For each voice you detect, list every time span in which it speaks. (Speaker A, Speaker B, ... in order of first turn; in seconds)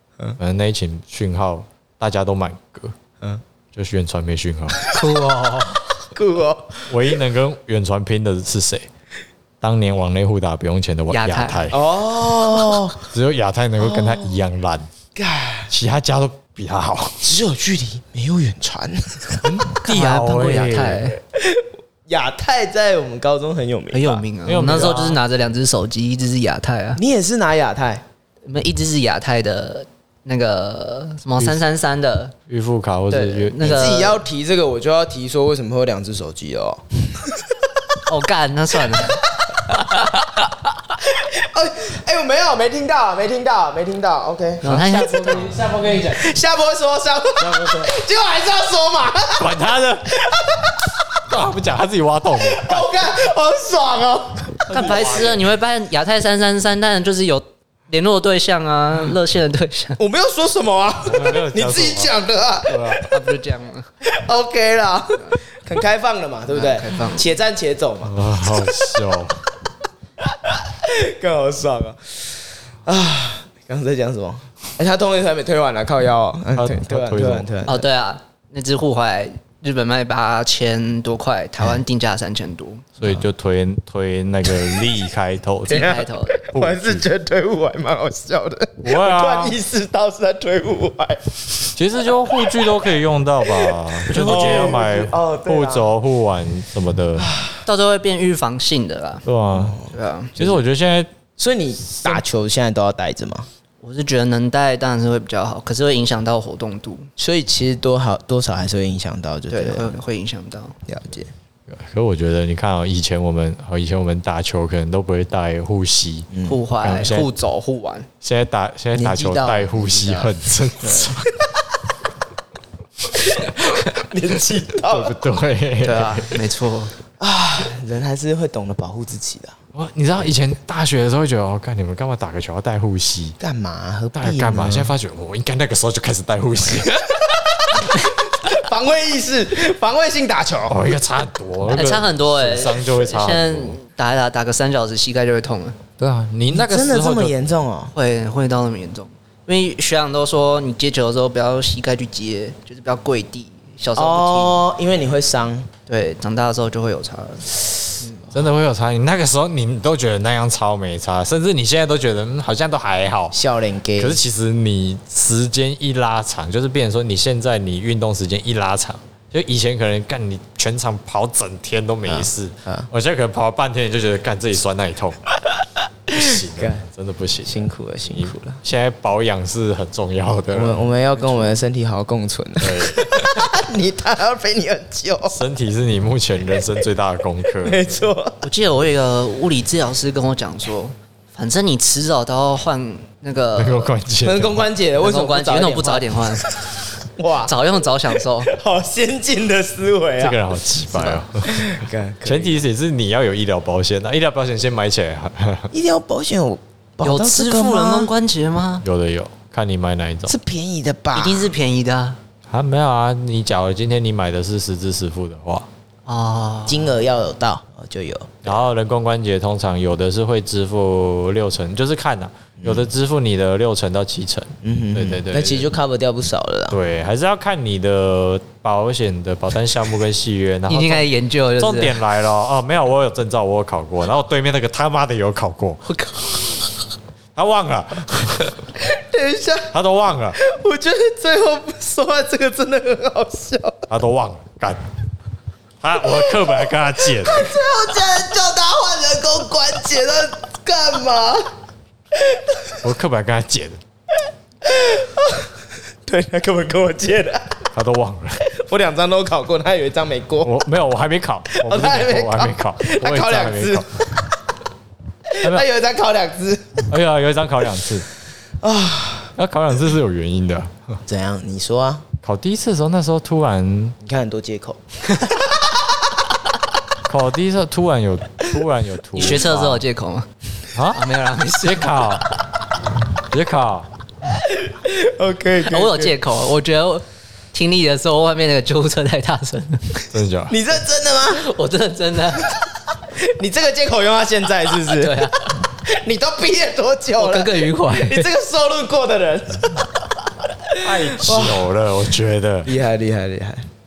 Speaker A: 0.4-3.0, 3.7-4.8, 6.9-8.9, 9.6-11.8, 13.1-14.9, 15.7-17.3, 19.4-21.1, 24.4-25.2, 31.4-31.6, 32.5-34.0, 44.7-45.2, 49.4-50.1, 51.3-52.9, 54.7-55.5, 61.0-62.1, 62.7-63.1, 68.0-69.4, 76.6-77.5, 83.0-85.9, 86.5-87.1, 88.8-89.6, 91.8-97.3, 99.2-99.8, 100.4-101.1, 101.9-102.2, 111.7-117.3, 118.2-121.3, 124.8-126.3, 129.7-133.4, 134.2-137.9, 140.7-143.8, 146.0-147.4, 158.3-163.4, 164.0-175.2, 176.1-181.6, 182.6-183.2, 185.3-188.1, 193.6-194.7, 200.2-205.7, 208.8-210.3, 212.5-215.7, 218.4-225.7, 226.7-235.8, 237.4-238.6, 239.7-240.4, 243.9-244.8, 245.8-247.5, 252.8-253.8, 257.7-258.4, 260.4-263.9, 265.4-265.6, 266.9-268.1, 269.4-271.0, 272.2-274.0, 277.0-279.8, 280.7-281.0, 281.6-282.3, 283.3-283.9, 290.1-290.6, 300.8-302.7
Speaker B: 4.9-6.0, 11.1-11.6, 19.8-21.2, 23.9-27.0, 28.5-32.3, 33.1-34.2, 38.1-39.2, 44.6-45.7, 54.7-60.0, 63.1-63.9, 66.5-67.2, 77.7-82.8, 85.7-86.4, 94.1-94.7, 97.7-99.2, 99.9-100.3, 103.8-107.1, 109.5-110.8, 116.4-118.1, 120.8-121.1, 125.8-126.9, 141.7-145.8, 147.9-154.7, 155.9-158.3, 188.4-193.9, 195.0-196.5, 197.5-198.5, 200.9-201.2, 207.0-208.8, 211.2-212.2, 216.1-216.9, 230.7-232.0, 235.9-236.6, 279.2-280.3, 280.9-282.2, 285.6-290.1, 291.3-292.5, 294.9-295.6, 297.2-298.3
Speaker C: 6.1-7.0, 11.7-13.0, 13.8-14.4, 15.2-15.7, 17.2-19.7, 21.3-24.2, 26.9-28.0, 33.6-38.0, 39.0-40.1, 41.0-49.6, 50.1-51.1, 52.4-55.1, 60.0-63.2, 64.0-69.0, 70.2-77.9, 85.7-91.7, 93.5-95.9, 97.2-97.6, 99.5-100.6, 101.4-103.5, 107.2-109.9, 110.9-111.3, 116.3-116.6, 119.0-120.3, 123.1-125.2, 127.2-129.6, 133.4-134.9, 137.7-140.9, 146.5-147.9, 153.9-155.7, 163.3-164.2, 172.1-172.9, 176.1-176.8, 177.5-178.6, 180.5-185.4, 187.6-188.4, 194.2-197.6, 198.4-200.4, 201.5-202.6, 205.7-208.1, 210.3-211.6, 216.7-218.5, 222.6-222.9, 224.6-226.8, 238.8-239.7, 240.4-243.9, 246.0-251.5, 252.1-252.8, 254.6-257.6, 258.4-260.5, 261.5-264.4, 265.3-266.9, 268.6-269.3, 271.1-272.1, 274.0-275.9, 284.3-286.2, 290.5-291.4, 292.5-301.7, 302.6-303.7